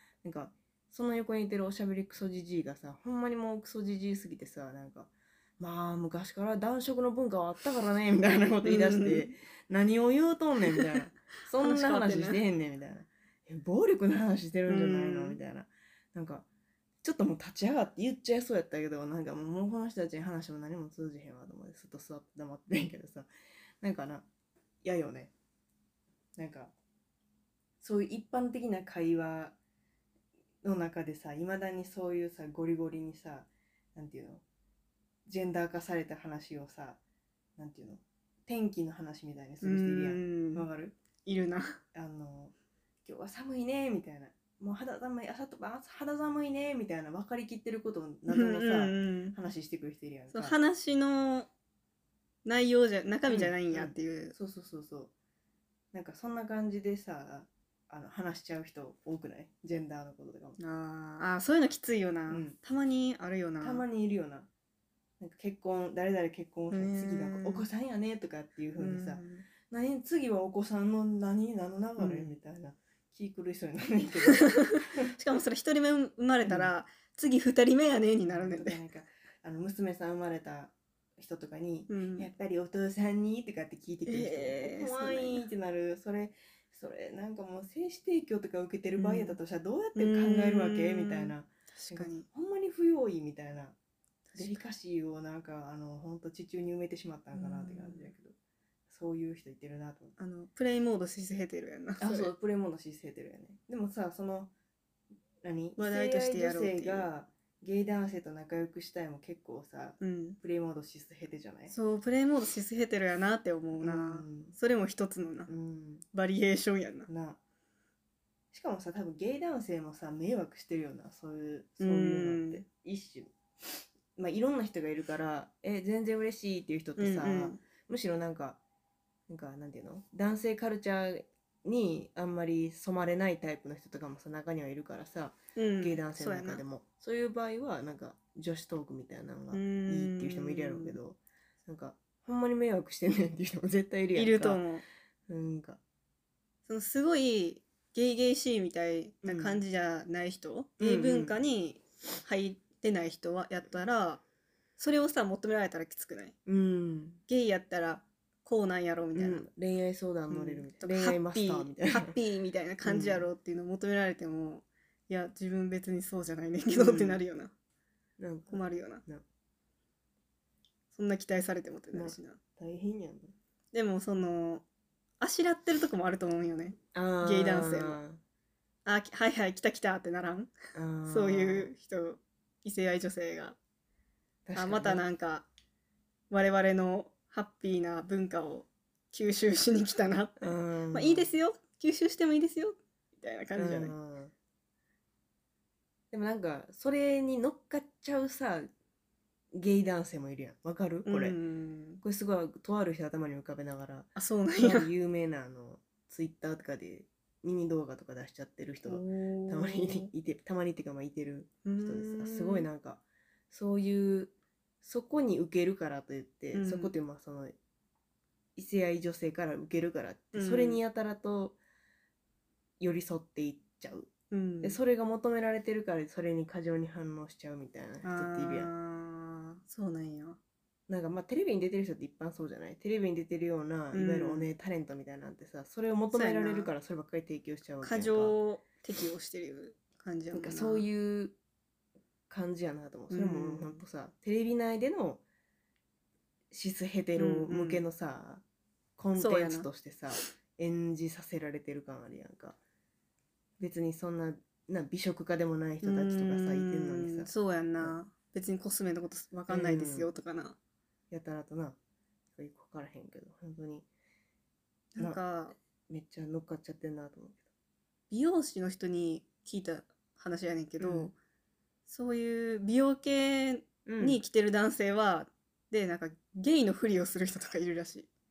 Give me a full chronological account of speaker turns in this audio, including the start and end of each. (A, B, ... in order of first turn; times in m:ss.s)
0:00.2-0:16.5 A
0:08.6-0:09.3 B
0:10.7-0:11.0 B
0:11.6-0:12.4 B
0:14.7-0:15.4 B
0:17.0-0:23.3 A
0:23.8-0:24.3 A
0:24.8-0:25.3 A
0:26.4-0:26.7 A
0:27.8-0:29.6 A
0:30.6-0:34.4 A
0:35.3-0:37.0 A
0:37.6-0:41.0 A
0:39.6-0:40.6 B
0:41.2-0:41.8 B
0:41.9-0:42.5 A
0:43.0-0:50.6 A
0:48.3-0:49.4 B
0:50.3-0:51.5 B
0:52.4-0:54.4 B
0:53.3-0:55.1 A
0:55.9-1:00.6 A
1:00.6-1:03.8 B
1:02.3-1:02.6 A
1:03.6-1:04.5 A
1:05.2-1:15.2 A
1:06.7-1:07.7 B
1:08.8-1:09.5 B
1:12.0-1:12.4 B
1:14.4-1:18.8 B
1:16.4-1:16.7 A
1:18.3-1:33.8 A
1:21.9-1:22.3 B
1:24.1-1:25.4 B
1:29.0-1:29.4 B
1:30.0-1:32.3 B
1:34.3-1:34.6 B
1:34.4-1:38.4 A
1:37.3-1:38.1 B
1:38.9-1:40.2 A
1:40.2-1:42.3 B
1:42.0-1:44.5 A
1:45.4-1:51.8 A
1:45.8-1:47.1 B
1:50.0-1:50.4 B
1:51.7-1:55.5 B
1:53.8-1:54.6 A
1:55.5-1:56.0 A
1:56.1-1:57.1 B
1:57.1-1:57.4 A
1:58.5-2:03.3 A
2:01.8-2:02.6 B
2:04.2-2:08.6 A
2:07.0-2:07.6 B
2:09.3-2:24.6 A
2:15.6-2:16.6 B
2:19.5-2:21.0 B
2:24.2-2:24.8 B
2:25.3-2:25.8 A
2:26.7-2:34.2 B
2:29.2-2:29.6 A
2:30.8-2:31.4 A
2:34.8-2:36.4 B
2:36.5-2:37.2 A
2:37.3-2:39.5 B
2:39.2-2:42.2 A
2:40.3-2:47.5 B
2:42.8-2:43.3 A
2:46.7-2:47.2 A
2:48.2-2:49.2 A
2:48.5-2:49.0 B
2:50.9-2:52.4 B
2:51.9-2:53.3 A
2:53.7-2:54.6 B
2:55.2-2:58.0 B
2:56.9-2:58.2 A
2:58.8-3:00.5 B
3:00.7-3:01.7 A
3:01.1-3:03.6 B
3:04.5-3:05.0 A
3:04.6-3:05.5 B
3:06.3-3:14.0 B
3:10.4-3:11.3 A
3:13.6-3:14.3 A
3:16.1-3:18.7 A
3:19.5-3:21.4 A
3:21.1-3:22.0 B
3:22.0-3:37.6 A
3:24.2-3:24.9 B
3:28.9-3:30.1 B
3:31.6-3:32.7 B
3:36.5-3:37.0 B
3:38.6-3:41.6 A
3:40.3-3:40.8 B
3:42.8-3:44.1 A
3:44.3-3:44.8 B
3:44.6-3:48.7 A
3:48.0-3:50.4 B
3:50.9-3:58.4 A
3:53.9-3:54.5 B
3:56.1-3:56.7 B
3:57.8-4:00.9 B
4:00.3-4:01.4 A
4:02.3-4:05.2 A
4:03.1-4:03.8 B
4:06.5-4:08.4 A
4:07.2-4:07.8 B
4:09.0-4:12.6 A
4:09.2-4:10.2 B
4:13.6-4:18.0 A
4:15.8-4:20.6 B
4:19.5-4:20.1 A
4:21.1-4:21.8 A
4:22.4-4:23.9 A
4:25.0-4:25.6 B
4:25.9-4:27.5 A
4:28.1-4:31.1 B
4:30.8-4:31.1 A
4:31.9-4:38.1 B
4:33.9-4:34.2 A